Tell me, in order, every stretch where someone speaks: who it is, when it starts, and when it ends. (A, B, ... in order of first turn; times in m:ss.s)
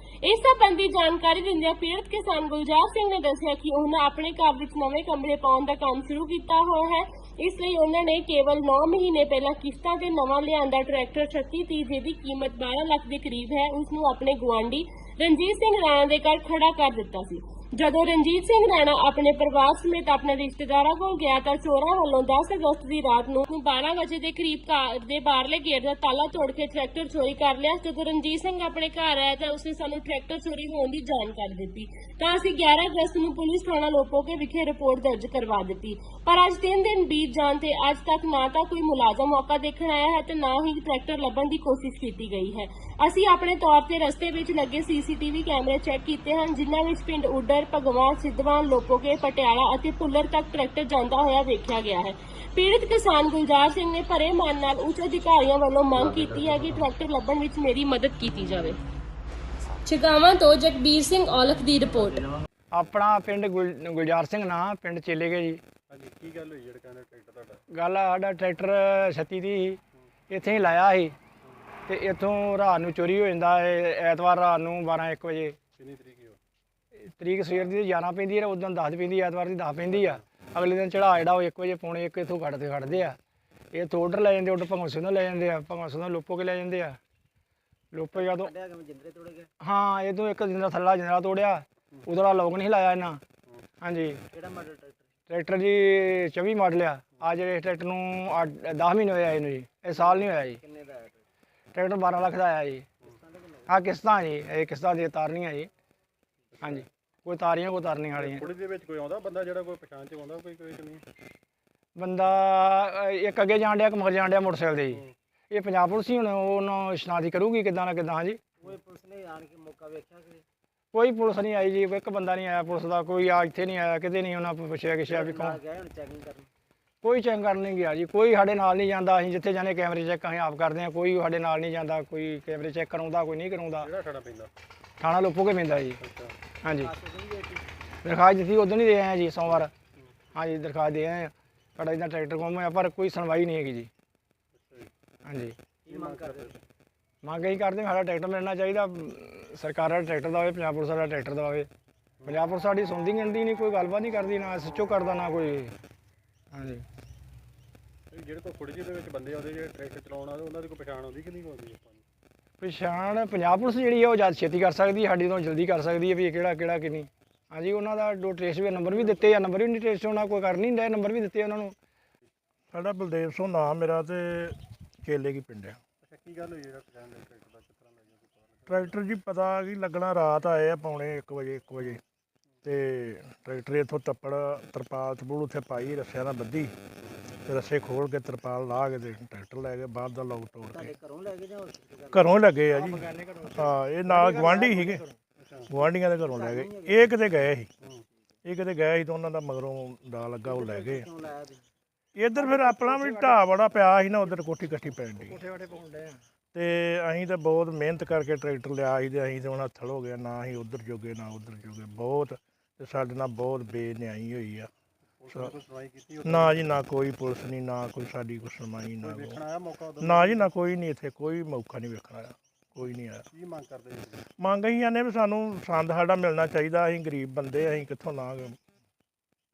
0:00.2-0:58.8 A
0:59.8-1:02.3 A
1:02.7-1:05.6 B
1:05.9-1:07.6 C
1:07.7-1:09.8 B
1:10.3-1:11.2 B
1:11.9-1:15.6 B
1:15.8-1:16.4 C
1:17.0-1:23.2 B
1:19.9-1:20.3 C
1:22.8-1:23.1 C
1:23.7-1:27.0 B
1:27.9-1:28.5 B
1:28.1-1:29.5 D
1:29.6-1:33.2 B
1:33.8-1:34.2 B
1:34.3-1:35.1 D
1:35.3-1:40.6 B
1:39.9-1:41.3 D
1:41.7-1:42.9 B
1:43.0-1:43.8 D
1:43.7-1:45.7 B
1:46.6-1:46.8 C
1:46.6-1:48.5 B
1:48.2-1:51.0 C
1:52.0-1:58.4 B
1:58.6-2:00.4 D
2:00.9-2:05.6 B
2:05.1-2:06.5 D
2:07.0-2:13.9 B
2:13.8-2:14.5 C
2:15.0-2:16.0 B
2:16.0-2:16.4 C
2:16.6-2:16.9 B
2:16.8-2:17.6 D
2:18.0-2:19.7 B
2:20.3-2:23.9 B
2:24.5-2:24.9 C
2:25.3-2:25.6 B
2:25.9-2:26.6 D
2:25.9-2:26.6 C
2:27.2-2:31.7 B
2:32.3-2:35.8 B
2:36.5-2:36.8 B
2:38.1-2:42.0 C
2:42.6-2:51.8 B
2:48.9-2:49.2 C
2:52.7-2:55.8 E
2:56.0-2:58.9 C
2:58.7-3:02.0 E
3:02.6-3:06.8 E
3:07.4-3:11.0 E
3:10.7-3:12.5 D
3:12.1-3:15.0 E
3:12.7-3:15.2 B
3:15.4-3:15.7 C
3:15.7-3:17.7 E
3:16.2-3:17.3 D
3:18.4-3:21.1 E
3:20.4-3:21.7 D
3:22.2-3:25.4 E
3:22.4-3:26.2 B
3:26.5-3:34.7 E
3:35.2-3:36.6 C
3:36.2-3:39.4 E
3:39.0-3:40.5 C
3:40.0-3:43.3 E
3:43.3-3:44.3 C
3:44.4-3:48.6 E